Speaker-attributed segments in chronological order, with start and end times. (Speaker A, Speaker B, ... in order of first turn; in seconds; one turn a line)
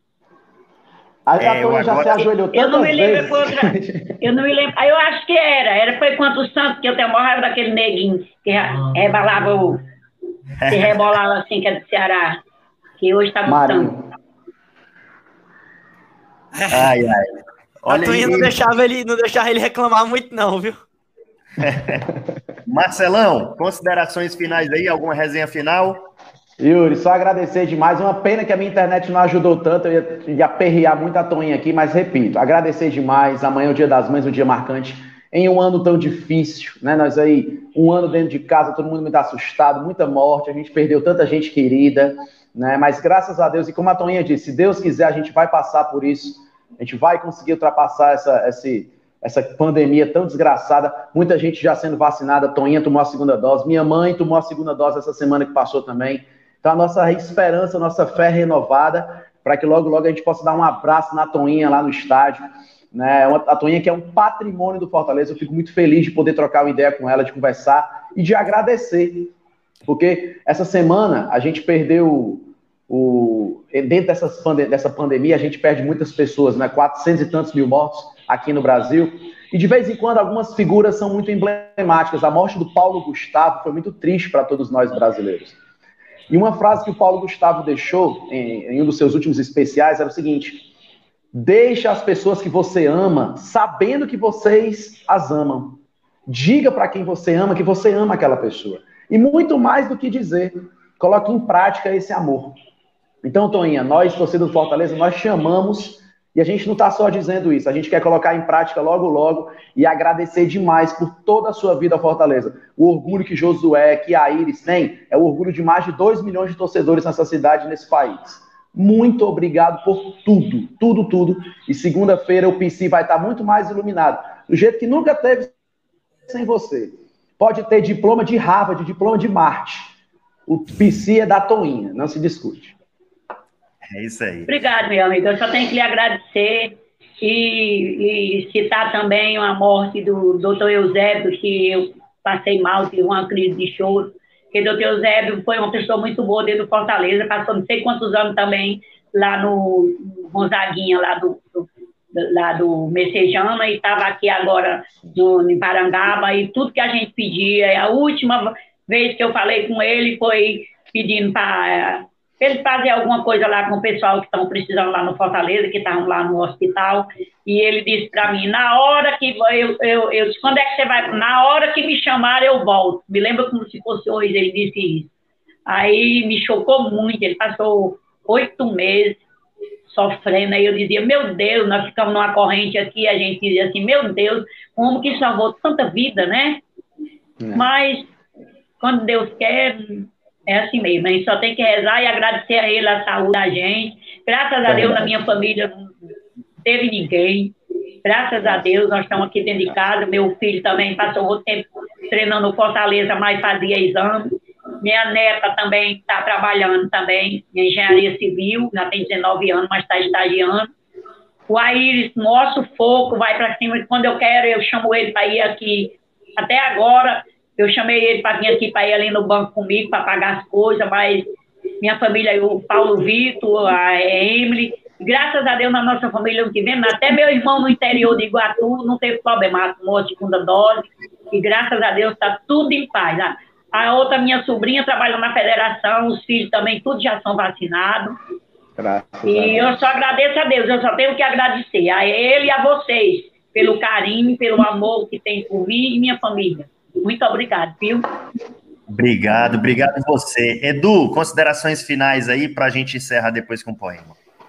Speaker A: 1.3-4.2
Speaker B: 1.4-2.3
Speaker C: 2.5-9.8
Speaker B: 10.6-11.0
Speaker C: 10.7-12.4
Speaker C: 13.0-13.9
Speaker A: 13.4-14.1
Speaker D: 16.5-16.9
Speaker B: 16.7-18.6
Speaker D: 17.9-20.8
Speaker B: 21.6-22.0
Speaker B: 22.6-26.1
Speaker A: 26.6-62.4
Speaker A: 62.9-69.3
Speaker A: 69.8-85.6
Speaker A: 86.3-90.7
Speaker A: 91.3-102.6
Speaker A: 103.2-125.5
Speaker A: 126.3-129.9
Speaker A: 130.5-132.8
Speaker B: 133.9-134.5
Speaker C: 134.5-175.1
Speaker C: 175.7-179.2
Speaker C: 179.9-186.6
Speaker A: 187.4-187.7
Speaker C: 187.5-188.1
Speaker C: 188.8-195.9
Speaker A: 194.7-195.1
Speaker C: 196.6-197.5
Speaker C: 198.0-210.7
Speaker C: 211.5-221.3
Speaker C: 221.8-238.2
Speaker A: 238.8-239.8
Speaker C: 239.2-248.1
Speaker B: 248.9-254.2